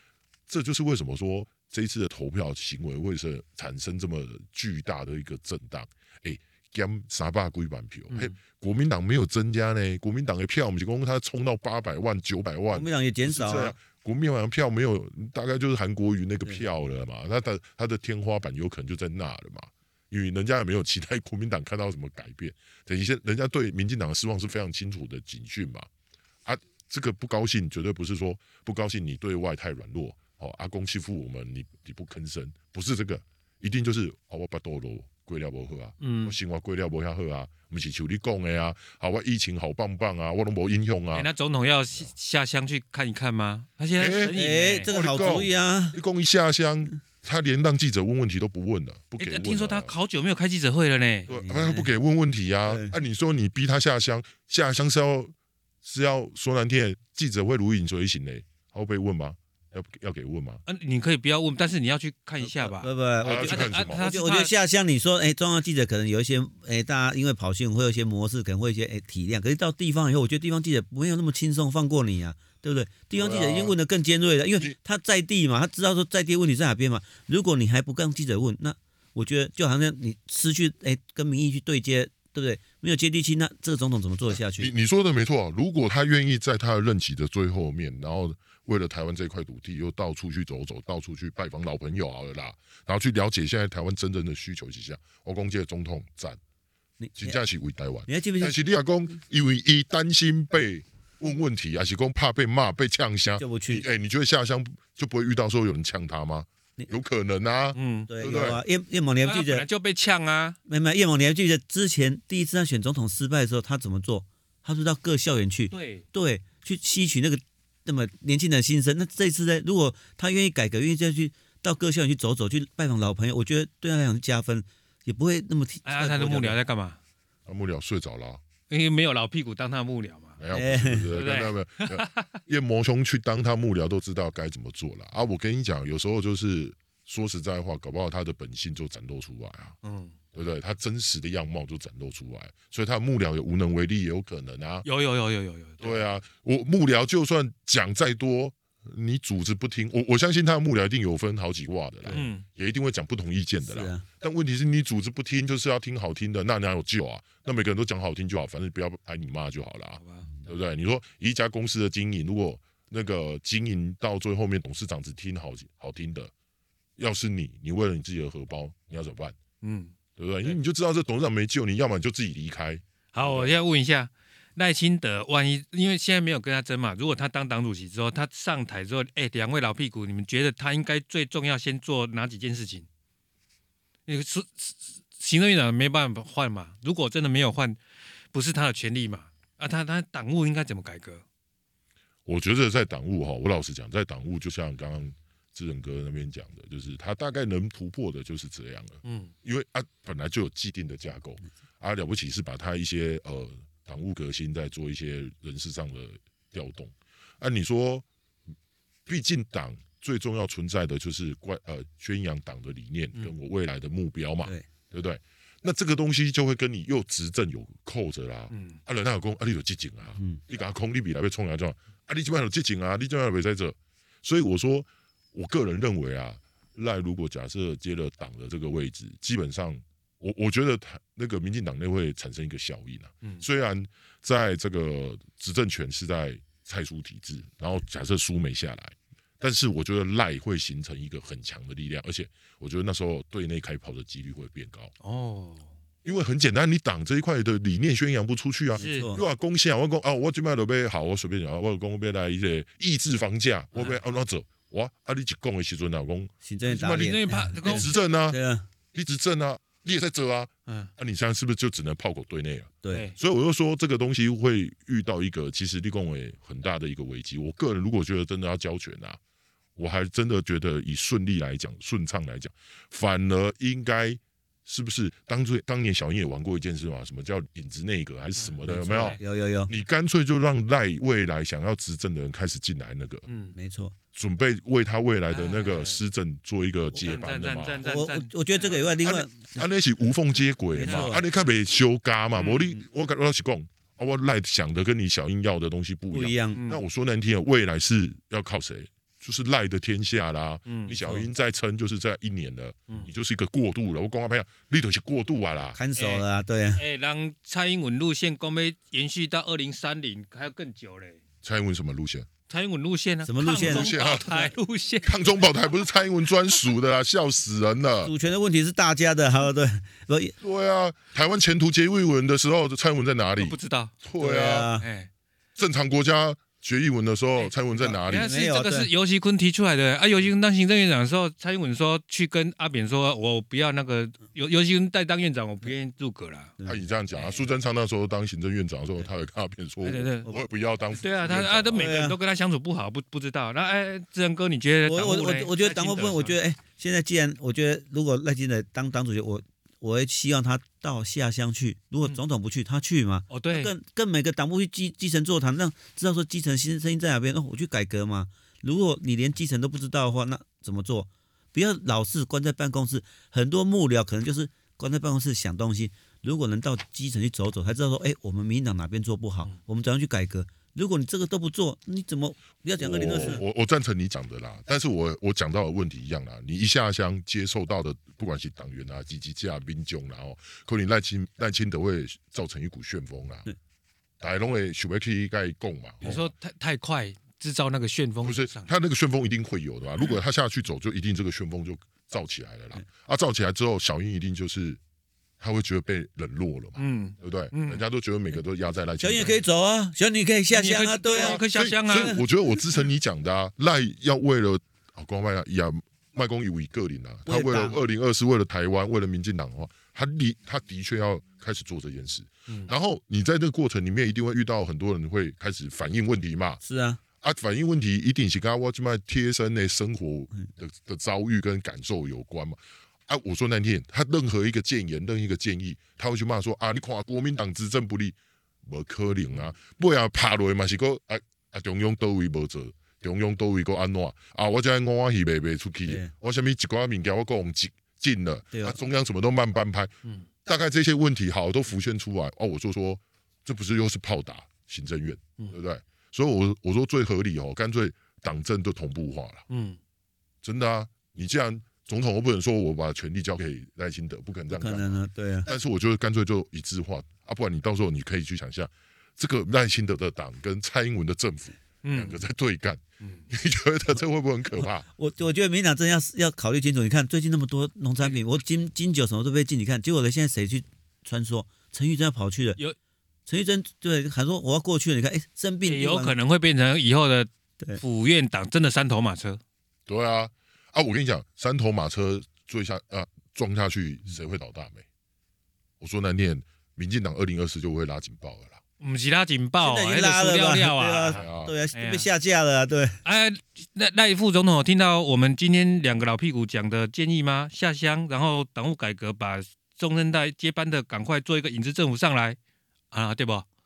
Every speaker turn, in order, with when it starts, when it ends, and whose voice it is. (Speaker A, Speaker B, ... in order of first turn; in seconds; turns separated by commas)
Speaker A: 0.5-25.9, Speaker B: 12.7-13.8, Speaker A: 26.4-41.3, Speaker C: 36.0-36.3, Speaker C: 41.1-44.9, Speaker A: 44.0-49.9, Speaker B: 44.3-46.0, Speaker C: 49.2-51.3, Speaker B: 51.3-51.9, Speaker A: 51.3-60.6, Speaker B: 52.7-52.9, Speaker C: 60.6-64.5, Speaker B: 62.4-84.7, Speaker A: 63.2-64.0, Speaker A: 73.1-73.7, Speaker A: 84.3-96.4, Speaker B: 97.0-97.3, Speaker A: 97.2-108.6, Speaker B: 98.1-98.6, Speaker B: 103.4-103.8, Speaker C: 107.7-108.1, Speaker B: 108.1-109.7, Speaker C: 109.2-110.6, Speaker B: 110.7-126.6, Speaker C: 115.7-116.0, Speaker C: 125.8-127.0, Speaker A: 127.5-128.4, Speaker C: 128.7-130.4, Speaker A: 130.4-139.8, Speaker B: 130.5-131.1, Speaker C: 131.1-132.4, Speaker C: 139.8-140.2, Speaker A: 140.3-144.8, Speaker C: 144.8-146.0, Speaker A: 145.8-166.3, Speaker C: 152.1-152.4, Speaker B: 153.7-154.0, Speaker C: 160.0-160.2, Speaker A: 167.0-169.4, Speaker C: 169.6-170.6, Speaker A: 170.2-173.6, Speaker C: 173.1-182.9, Speaker C: 184.1-187.8, Speaker C: 188.3-191.2, Speaker A: 192.2-208.1, Speaker C: 199.0-199.3, Speaker A: 209.1-244.9, Speaker C: 218.5-218.8, Speaker C: 245.0-245.7, Speaker A: 246.0-258.4, Speaker B: 248.7-249.2, Speaker C: 248.8-249.1, Speaker B: 256.4-258.6, Speaker C: 256.7-257.9, Speaker A: 258.9-269.2, Speaker C: 262.9-263.2, Speaker A: 269.8-283.3, Speaker C: 278.4-279.2, Speaker B: 278.7-279.7, Speaker C: 283.3-283.5, Speaker B: 283.5-283.9, Speaker A: 284.1-287.8, Speaker C: 285.3-286.0, Speaker C: 287.0-288.9, Speaker B: 287.8-289.6, Speaker A: 289.0-305.8, Speaker B: 290.7-291.2, Speaker C: 290.8-291.2, Speaker C: 292.4-292.7, Speaker B: 296.1-296.6, Speaker C: 296.5-296.8, Speaker C: 300.7-301.0, Speaker B: 305.8-306.8, Speaker C: 305.9-306.2, Speaker C: 306.8-311.2, Speaker A: 311.4-312.3, Speaker C: 312.5-315.6, Speaker B: 313.2-314.5, Speaker A: 313.6-314.3, Speaker A: 315.0-318.1, Speaker B: 318.0-320.3, Speaker A: 320.4-324.7, Speaker C: 323.4-323.9, Speaker B: 324.2-324.9, Speaker C: 324.8-325.1, Speaker A: 325.6-328.3, Speaker B: 327.8-328.9, Speaker C: 328.0-336.5, Speaker A: 336.6-341.9, Speaker C: 337.1-337.4, Speaker C: 339.8-340.3, Speaker C: 341.0-346.4, Speaker B: 341.7-342.2, Speaker B: 344.9-373.4, Speaker C: 353.3-353.7, Speaker A: 372.8-383.5, Speaker A: 384.2-386.3, Speaker C: 386.0-388.7, Speaker A: 388.2-394.8, Speaker A: 395.4-399.4, Speaker C: 396.8-397.8, Speaker B: 399.0-401.4, Speaker C: 400.5-402.2, Speaker A: 401.2-416.6, Speaker B: 407.2-407.8, Speaker B: 416.6-417.0, Speaker A: 417.2-439.9, Speaker B: 438.5-438.8, Speaker A: 440.4-449.4, Speaker C: 449.5-449.8, Speaker A: 450.4-464.9, Speaker B: 454.5-455.5, Speaker C: 461.8-462.2, Speaker B: 464.9-472.6, Speaker B: 473.3-476.1, Speaker C: 475.6-479.4, Speaker A: 479.9-484.9, Speaker A: 485.8-488.6, Speaker C: 488.8-492.1, Speaker B: 489.6-493.0, Speaker A: 491.1-491.5, Speaker C: 493.0-502.4, Speaker C: 502.9-503.4